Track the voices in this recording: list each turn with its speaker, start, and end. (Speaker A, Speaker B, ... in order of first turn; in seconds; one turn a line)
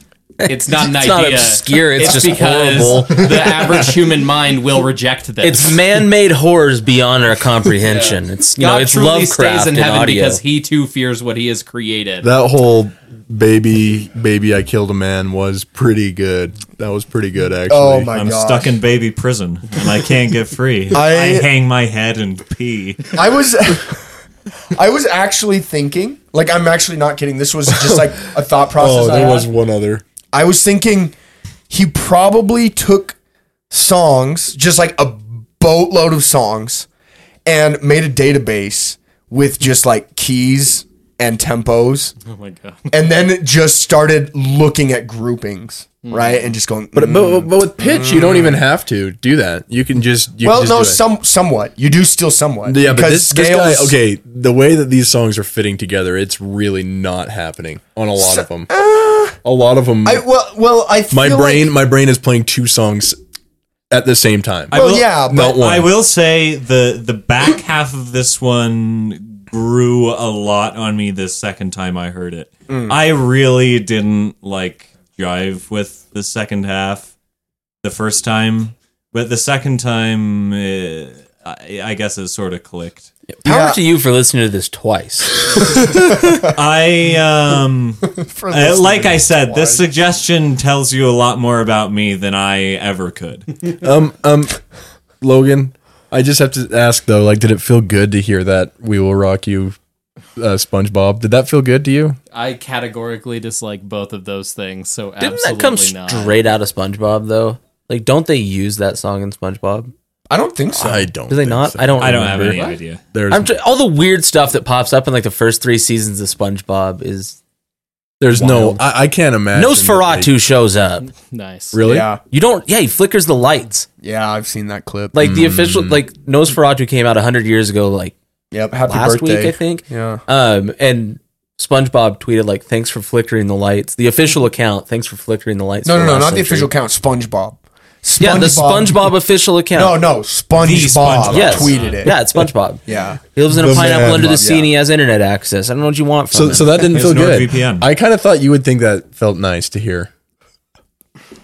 Speaker A: 0.4-3.5
Speaker B: 0.5-5.8
Speaker A: 5.4-10.4
Speaker B: 7.8-12.3
Speaker C: 12.2-18.1
Speaker D: 17.7-18.7
Speaker E: 18.1-23.2
Speaker D: 20.9-21.5
Speaker D: 23.1-24.0
Speaker D: 24.7-29.5
Speaker C: 27.8-28.2
Speaker C: 28.8-30.0
Speaker D: 30.3-31.1
Speaker D: 31.7-33.2
Speaker D: 33.7-36.9
Speaker D: 37.5-42.1
Speaker B: 42.2-42.9
Speaker D: 42.9-48.6
Speaker B: 46.0-46.5
Speaker C: 46.9-51.0
Speaker D: 50.4-54.0
Speaker C: 52.6-58.7
Speaker D: 58.2-59.4
Speaker C: 59.4-60.2
Speaker D: 60.0-61.7
Speaker C: 61.1-63.2
Speaker C: 63.9-65.9
Speaker D: 64.7-65.6
Speaker E: 64.7-77.1
Speaker D: 72.7-73.0
Speaker E: 77.8-83.1
Speaker A: 83.4-85.4
Speaker D: 83.5-83.8
Speaker E: 85.8-93.5
Speaker D: 88.2-89.8
Speaker C: 93.8-94.6
Speaker C: 95.2-99.8
Speaker C: 100.4-102.2
Speaker B: 102.3-106.4
Speaker A: 105.2-109.9
Speaker D: 110.3-111.1
Speaker C: 110.8-112.6
Speaker A: 111.3-112.7
Speaker E: 112.0-113.0
Speaker C: 113.1-113.5
Speaker A: 113.3-117.4
Speaker C: 118.2-120.3
Speaker A: 118.3-118.8
Speaker A: 119.5-121.1
Speaker B: 121.2-121.8
Speaker C: 121.7-122.1
Speaker D: 121.8-122.2
Speaker A: 122.3-123.9
Speaker D: 124.0-125.2
Speaker A: 125.1-128.2
Speaker C: 125.2-126.0
Speaker D: 128.5-130.2
Speaker A: 128.9-136.7
Speaker D: 135.8-139.1
Speaker A: 138.2-140.0
Speaker D: 139.8-142.2
Speaker E: 140.6-142.0
Speaker A: 141.2-146.9
Speaker D: 142.9-143.2
Speaker C: 143.5-144.5
Speaker D: 143.7-144.7
Speaker C: 146.3-150.1
Speaker E: 146.9-147.9